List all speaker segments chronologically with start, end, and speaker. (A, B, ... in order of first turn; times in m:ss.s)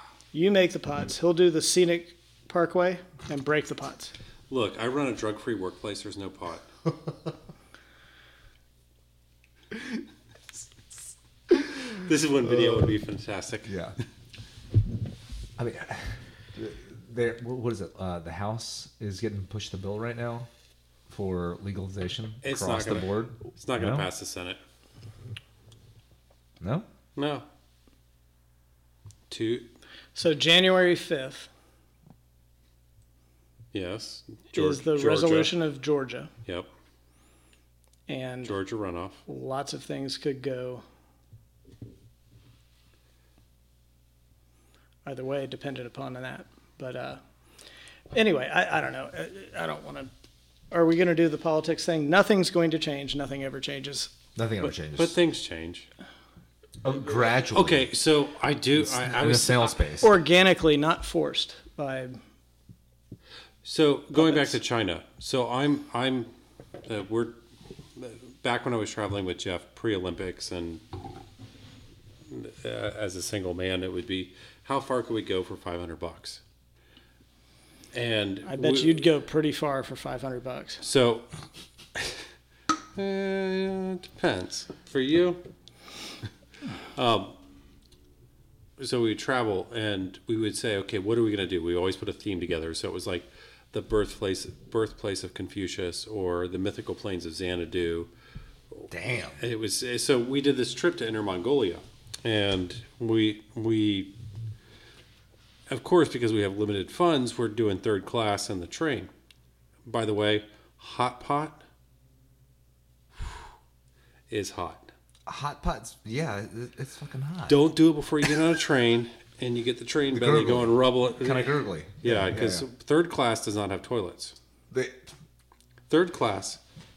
0:00.3-0:04.1 A
0:04.5-0:06.7 B
0:11.5-0:12.9 C
0:11.9-0:13.8 B
0:13.6-0:14.0 C
0:15.6-0:20.5 C
0:21.1-0:24.1 C
0:22.4-0:24.6 B
0:26.6-0:26.9 C
0:27.2-0:27.4 B
0:29.3-0:29.7 B
0:30.1-0:31.5 A
0:33.7-0:35.5 B
0:34.5-0:36.3 A
0:38.1-0:38.6 A
0:38.4-0:39.2 B
0:39.3-0:40.8 A
0:45.0-0:47.2 A
0:48.1-0:50.1 A
0:50.7-0:54.1 A
0:54.4-0:55.2 C
0:54.9-0:55.9 B
0:56.8-0:57.9 C
0:57.5-0:59.9 B
0:58.8-1:00.1 C
1:00.0-1:02.2 A
1:03.6-1:06.3 B
1:04.1-1:04.5 A
1:06.8-1:07.4 B
1:07.9-1:10.8 B
1:12.3-1:16.4 B
1:17.9-1:19.0 B
1:18.4-1:20.8 A
1:20.8-1:21.3 B
1:22.9-1:25.4 B
1:26.9-1:27.4 B
1:28.8-1:38.1 B
1:38.7-1:44.1 B
1:38.9-1:39.4 C
1:45.7-1:49.1 B
1:49.8-1:51.6 B
1:54.3-1:54.9 B
1:55.2-1:57.6 C
1:57.5-2:04.4 B
2:00.1-2:02.6 C
2:04.7-2:05.1 C
2:05.9-2:06.6 B